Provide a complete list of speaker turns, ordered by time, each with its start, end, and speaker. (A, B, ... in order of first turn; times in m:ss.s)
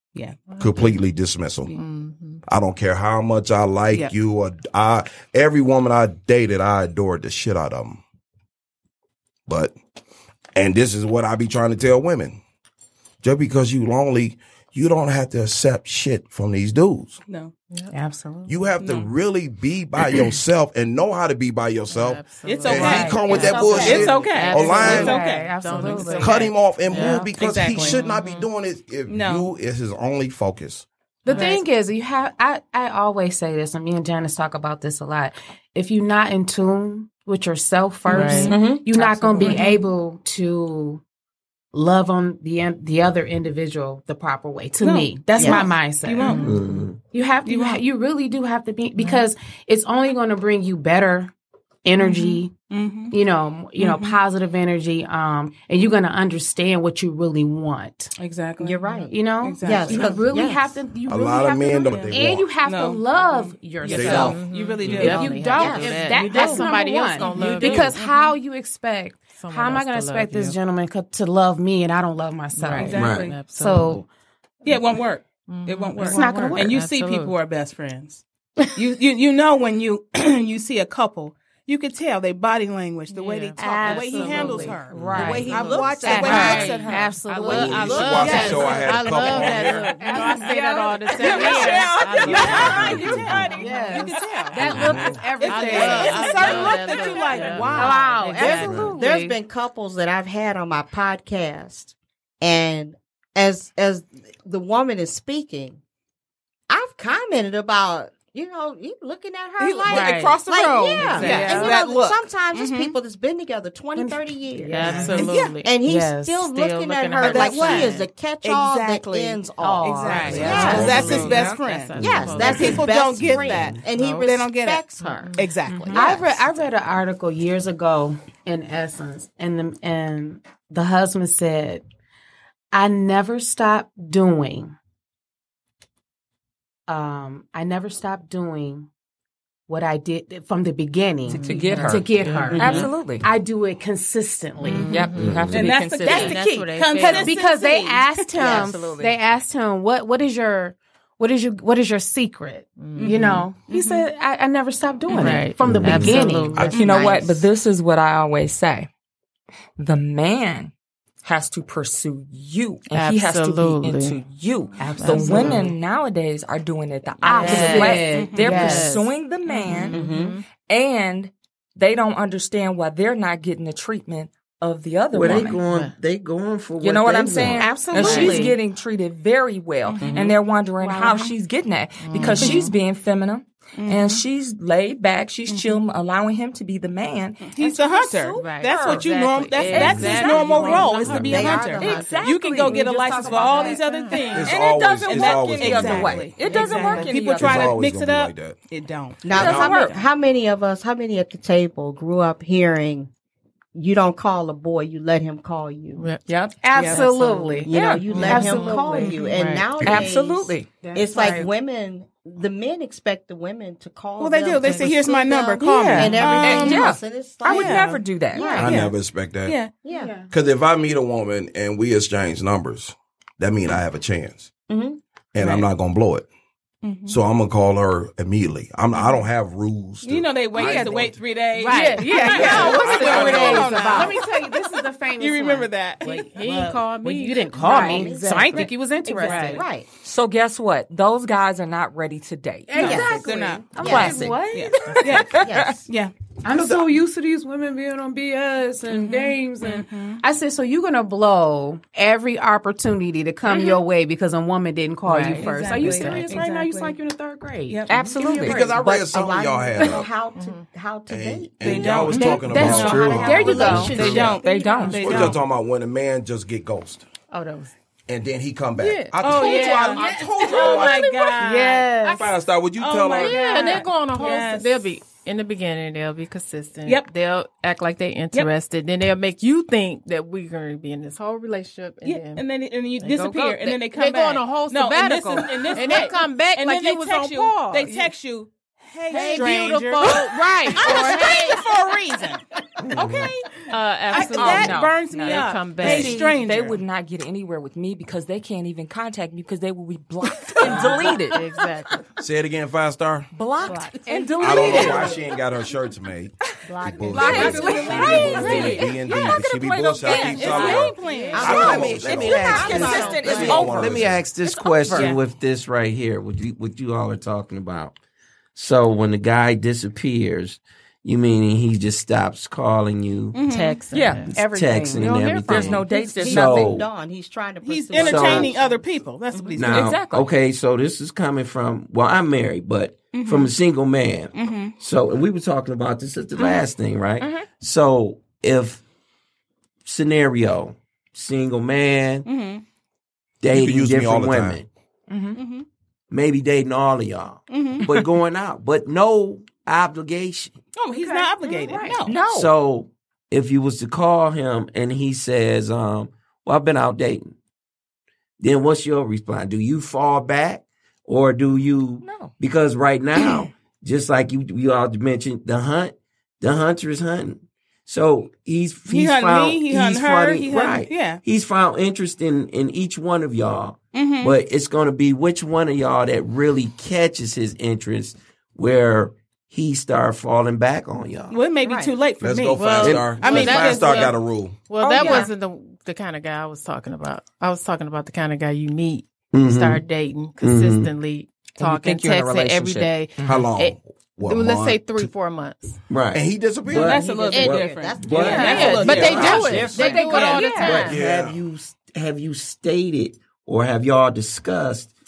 0:00.2-0:00.4 A
0:00.5-0:00.8 B
0:00.6-0:01.8 C
0:01.7-0:02.4 B
0:02.5-0:08.0 C
0:09.5-0:09.7 C
0:10.6-0:12.4 C
0:13.2-0:17.2 C
0:17.3-0:18.0 A
0:18.0-0:18.4 D
0:18.5-0:25.2 C
0:18.8-0:19.1 A
0:21.9-0:28.0 B
0:22.4-0:26.2 A
0:22.8-0:28.0 D
0:26.2-0:30.9 C
0:27.4-0:28.1 A
0:29.1-0:29.5 A
0:31.2-0:41.0 D
0:31.3-0:31.6 B
0:38.1-0:39.8 A
0:38.1-0:38.6 B
0:38.5-0:38.8 E
0:41.7-0:51.3 D
0:44.8-0:46.5 A
0:45.4-0:45.6 E
0:46.2-0:46.6 B
0:46.4-0:47.0 F
0:47.4-0:47.8 A
0:51.8-0:52.5 D
0:52.0-0:53.2 A
0:53.1-0:58.1 D
0:53.8-0:54.2 A
0:58.2-1:00.5 A
0:58.6-1:00.8 E
0:59.1-1:14.1 D
1:01.1-1:02.5 C
1:01.9-1:08.4 A
1:03.9-1:04.4 C
1:04.0-1:08.0 B
1:05.5-1:06.1 E
1:09.4-1:10.6 B
1:12.6-1:14.0 B
1:12.7-1:13.4 A
1:12.9-1:13.4 F
1:14.6-1:18.2 A
1:15.5-1:17.3 B
1:16.0-1:16.8 D
1:18.8-1:27.2 A
1:23.1-1:25.5 B
1:23.6-1:32.9 D
1:25.1-1:26.7 E
1:26.1-1:34.1 B
1:27.3-1:28.6 E
1:27.5-1:30.0 C
1:28.2-1:38.4 A
1:32.2-1:33.5 F
1:32.2-1:33.3 C
1:33.5-1:39.2 D
1:34.7-1:39.4 B
1:37.6-1:37.9 E
1:38.4-1:39.0 F
1:38.9-1:45.8 E
1:46.7-2:01.1 E
1:49.6-1:53.0 A
1:49.9-1:50.4 B
1:51.0-1:51.7 B
1:51.0-1:51.8 D
1:54.0-1:56.4 D
1:54.7-1:55.7 B
1:55.1-1:55.5 A
1:56.4-1:58.0 B
1:57.2-2:04.8 A
1:59.6-2:01.3 D
2:00.3-2:02.8 B
2:00.4-2:01.6 G
2:00.8-2:01.3 C
2:02.0-2:02.8 F
2:02.0-2:05.3 E
2:05.0-2:06.0 B
2:05.4-2:06.2 A
2:05.7-2:06.1 G
2:05.9-2:11.8 D
2:12.7-2:14.8 D
2:16.9-2:18.9 D
2:19.7-2:25.1 D
2:21.3-2:23.3 G
2:21.3-2:22.9 B
2:24.6-2:27.4 B
2:24.7-2:28.6 A
2:24.8-2:26.6 G
2:25.2-2:25.7 F
2:27.0-2:36.6 D
2:28.4-2:29.2 G
2:28.4-2:28.7 E
2:32.8-2:33.1 B
2:33.0-2:34.1 A
2:35.1-2:35.4 A
2:35.2-2:36.8 B
2:35.6-2:36.5 F
2:36.6-2:37.5 E
2:36.7-2:38.9 G
2:39.8-2:40.7 G
2:41.2-2:50.0 G
2:42.9-2:44.2 B
2:44.8-2:45.8 D
2:44.9-2:45.7 B
2:47.2-2:49.1 D
2:47.3-2:50.4 B
2:47.3-2:48.7 A
2:49.9-2:50.4 E
2:50.6-2:55.6 G
2:55.1-2:58.4 F
2:55.5-2:55.9 B
2:56.8-3:17.8 G
2:57.5-2:58.6 D
2:59.9-3:00.3 A
3:00.0-3:00.3 E
3:00.8-3:01.3 D
3:02.0-3:02.6 B
3:02.2-3:02.7 D
3:02.4-3:02.7 A
3:03.8-3:04.2 A
3:05.5-3:05.8 A
3:07.5-3:20.0 A
3:08.4-3:14.4 B
3:11.2-3:12.2 E
3:14.3-3:16.3 C
3:17.2-3:18.6 C
3:19.2-3:23.1 E
3:19.3-3:20.0 G
3:23.7-3:26.0 E
3:26.0-3:29.7 B
3:26.6-3:29.2 D
3:26.8-3:27.1 A
3:27.6-3:38.9 E
3:27.7-3:28.1 G
3:29.8-3:31.4 G
3:30.8-3:31.5 D
3:34.2-3:36.9 A
3:34.6-3:34.9 B
3:35.8-3:36.2 B
3:35.9-3:36.3 D
3:36.4-3:38.7 G
3:37.4-3:38.0 A
3:38.6-3:39.6 C
3:38.6-3:38.9 A
3:39.4-3:39.7 A
3:39.8-3:40.1 E
3:39.9-3:40.3 D
3:40.3-3:44.5 C
3:44.7-3:45.0 E
3:45.3-3:46.3 C
3:45.4-3:45.7 A
3:46.8-3:47.2 A
3:47.1-3:51.2 C
3:48.9-3:49.2 A
3:50.0-3:54.6 A
3:50.6-3:50.9 D
3:51.6-3:55.7 D
3:51.6-3:53.3 B
3:52.4-3:53.9 C
3:55.2-3:56.8 A
3:56.0-3:59.5 B
3:56.4-3:59.7 D
3:57.6-3:59.6 A
3:57.6-3:58.5 E
3:59.4-3:59.9 E
4:00.0-4:05.7 G
4:02.7-4:05.2 D
4:02.8-4:03.8 A
4:02.8-4:04.3 E
4:04.4-4:06.1 A
4:05.3-4:05.8 E
4:06.4-4:18.5 D
4:06.5-4:06.8 F
4:08.9-4:10.2 A
4:13.5-4:13.8 A
4:15.1-4:16.4 B
4:15.2-4:17.0 A
4:17.7-4:18.7 A
4:17.9-4:18.7 G
4:18.4-4:20.1 C
4:18.5-4:24.7 E
4:20.4-4:20.6 B
4:21.1-4:23.5 C
4:21.6-4:25.4 A
4:22.1-4:24.4 D
4:22.6-4:24.2 F
4:23.4-4:25.4 G
4:25.0-4:27.0 C
4:27.3-4:27.7 B
4:28.1-4:31.2 C
4:28.8-4:32.3 B
4:29.2-4:32.0 A
4:31.3-4:32.2 D
4:32.1-4:33.7 C
4:32.8-4:34.9 A
4:33.2-4:42.4 B
4:42.0-4:56.8 A
4:43.0-4:48.1 B
4:49.1-4:51.7 B
4:49.1-4:49.5 D
4:52.8-4:53.3 F
4:53.7-4:56.2 B
4:54.3-5:01.4 G
5:00.6-5:02.0 B
5:02.2-5:03.3 C
5:03.3-5:05.2 G
5:03.7-5:04.2 B
5:04.4-5:14.3 C
5:04.6-5:05.0 F
5:06.7-5:08.3 E
5:07.1-5:08.4 B
5:07.1-5:15.1 G
5:07.4-5:08.6 A
5:07.4-5:08.6 D
5:07.9-5:08.8 F
5:10.0-5:12.2 A
5:11.0-5:11.9 B
5:11.3-5:13.6 E
5:11.4-5:17.9 F
5:12.7-5:13.5 B
5:14.9-5:15.2 A
5:18.6-5:23.4 F
5:23.3-5:23.8 A
5:23.4-5:26.5 B
5:23.9-5:24.3 G
5:24.3-5:26.9 F
5:24.3-5:26.2 D
5:25.5-5:26.8 G
5:26.2-5:28.9 E
5:27.6-5:30.0 A
5:28.0-5:28.5 F
5:29.6-5:38.8 F
5:29.6-5:30.3 G
5:33.1-5:33.5 A
5:34.4-5:34.8 A
5:36.4-5:36.7 G
5:37.2-5:37.5 G
5:39.8-5:42.3 F
5:42.3-5:42.6 A
5:43.4-5:44.7 F
5:43.5-5:44.6 C
5:45.1-5:45.4 G
5:45.4-5:45.7 A
5:46.1-5:50.6 F
5:47.5-5:47.8 A
5:50.8-5:52.2 A
5:50.9-5:52.2 D
5:52.1-5:52.6 G
5:52.2-5:57.3 F
5:58.4-6:21.4 F
6:02.0-6:02.4 G
6:08.9-6:11.2 A
6:13.9-6:14.4 A
6:21.3-6:24.2 A
6:21.6-6:21.9 E
6:22.2-6:24.7 C
6:22.6-6:24.2 B
6:22.8-6:23.2 F
6:24.7-6:35.8 B
6:24.9-6:25.3 E
6:25.0-6:25.3 A
6:29.3-6:29.8 F
6:30.4-6:30.9 F
6:31.6-6:33.5 G
6:33.2-6:35.1 C
6:35.9-6:44.9 F
6:36.1-6:37.1 C
6:36.7-6:40.9 A
6:37.1-6:39.8 E
6:37.3-6:41.0 B
6:38.4-6:40.8 D
6:40.8-6:41.4 C